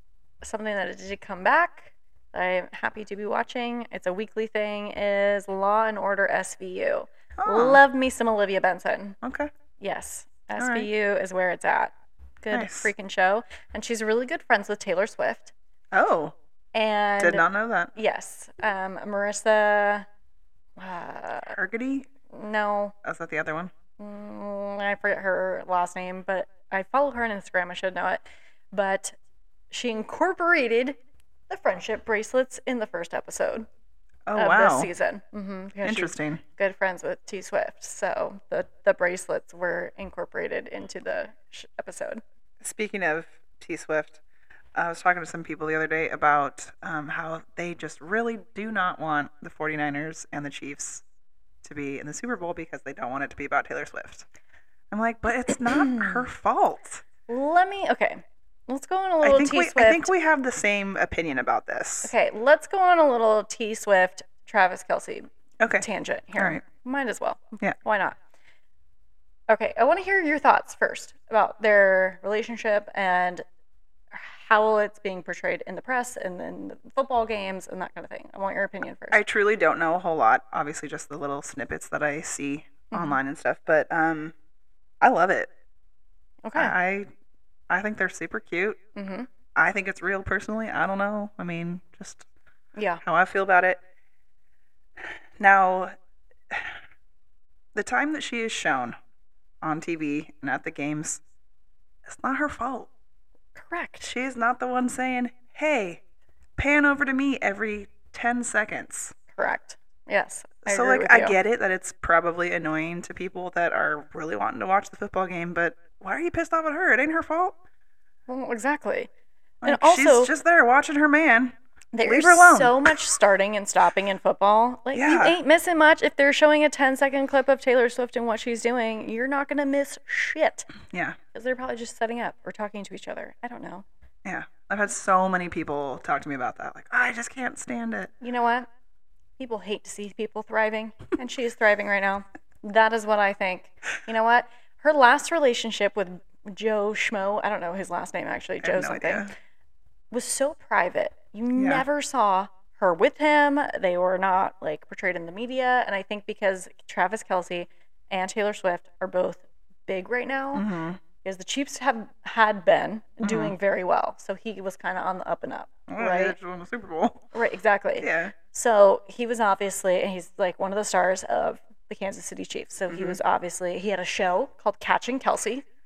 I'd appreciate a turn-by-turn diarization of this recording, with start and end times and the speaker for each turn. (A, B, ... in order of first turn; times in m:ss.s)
0:00.4-0:09.2 A
0:07.4-0:07.8 B
0:09.2-0:09.5 B
0:09.8-0:15.5 A
0:10.6-0:10.9 B
0:12.5-0:12.9 B
0:15.9-0:16.4 B
0:16.7-0:20.1 A
0:17.2-0:17.9 B
0:20.8-0:21.6 A
0:21.5-0:22.1 B
0:22.3-0:23.0 A
0:23.0-0:23.7 B
0:24.0-0:29.2 A
0:29.7-0:31.0 A
0:31.5-0:33.7 A
0:34.3-0:34.9 B
0:34.4-0:42.2 A
0:35.8-0:36.4 B
0:42.6-0:44.2 B
0:44.8-0:51.0 B
0:51.6-0:54.3 B
0:54.9-0:57.0 B
0:55.6-0:56.3 A
0:57.3-1:00.1 A
0:59.2-1:02.1 B
1:02.0-1:08.2 A
1:05.6-1:06.6 B
1:09.5-1:13.4 A
1:14.1-1:19.2 A
1:19.1-1:24.4 B
1:22.9-1:23.2 A
1:25.0-1:25.5 B
1:26.4-1:26.7 A
1:26.6-1:27.1 B
1:27.7-1:28.8 B
1:29.0-1:29.3 A
1:29.6-1:32.3 B
1:32.8-1:33.0 A
1:33.0-1:33.8 B
1:35.4-1:36.0 B
1:36.5-1:36.8 B
1:37.8-1:39.0 B
1:39.6-1:41.2 B
1:42.1-1:42.9 B
1:43.6-1:44.1 A
1:44.0-1:46.0 B
1:46.6-1:49.2 B
1:49.3-1:51.4 A
1:50.6-1:57.6 B
1:58.3-1:59.1 A
1:59.6-2:03.0 B
1:59.6-2:00.3 A
2:01.9-2:10.7 A
2:04.9-2:05.4 B
2:10.9-2:11.2 B
2:11.3-2:13.8 A
2:14.2-2:18.1 B
2:18.2-2:18.7 A
2:19.4-2:29.3 A
2:28.6-2:29.3 B
2:30.1-2:40.7 A
2:31.6-2:31.8 B
2:40.5-2:41.0 B
2:41.2-2:46.4 A
2:43.2-2:43.6 B
2:45.9-2:47.2 B
2:47.3-2:55.7 A
2:48.0-2:48.4 B
2:52.9-2:53.2 B